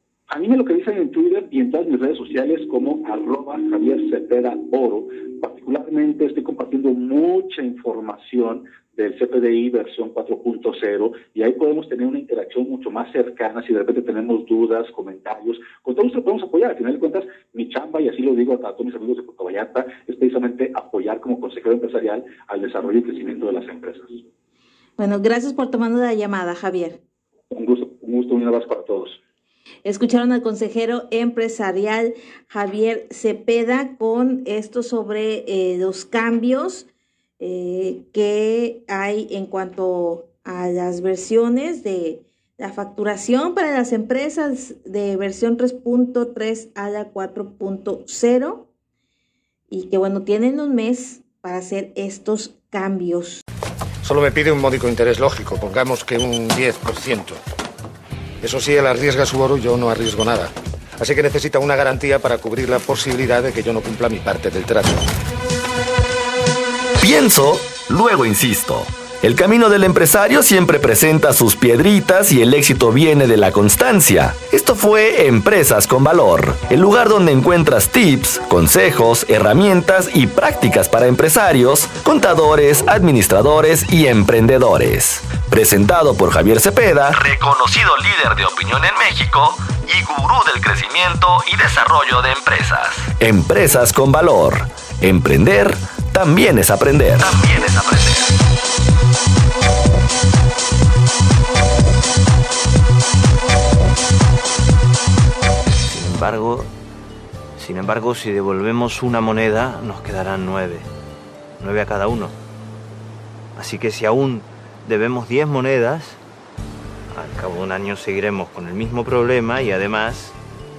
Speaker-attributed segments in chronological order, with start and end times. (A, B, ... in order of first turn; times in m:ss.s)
0:00.3-0:24.2 A
0:25.0-0:27.0 B
0:27.5-0:29.2 A
0:29.8-0:36.9 B
0:37.4-0:48.7 B
0:49.7-0:53.4 B
0:54.0-0:57.4 C
0:58.4-1:05.0 C
1:07.0-1:38.3 D
1:45.9-1:46.7 E
1:47.6-1:50.9 E
1:51.6-1:52.4 E
1:53.6-1:56.2 E
1:57.1-2:00.4 E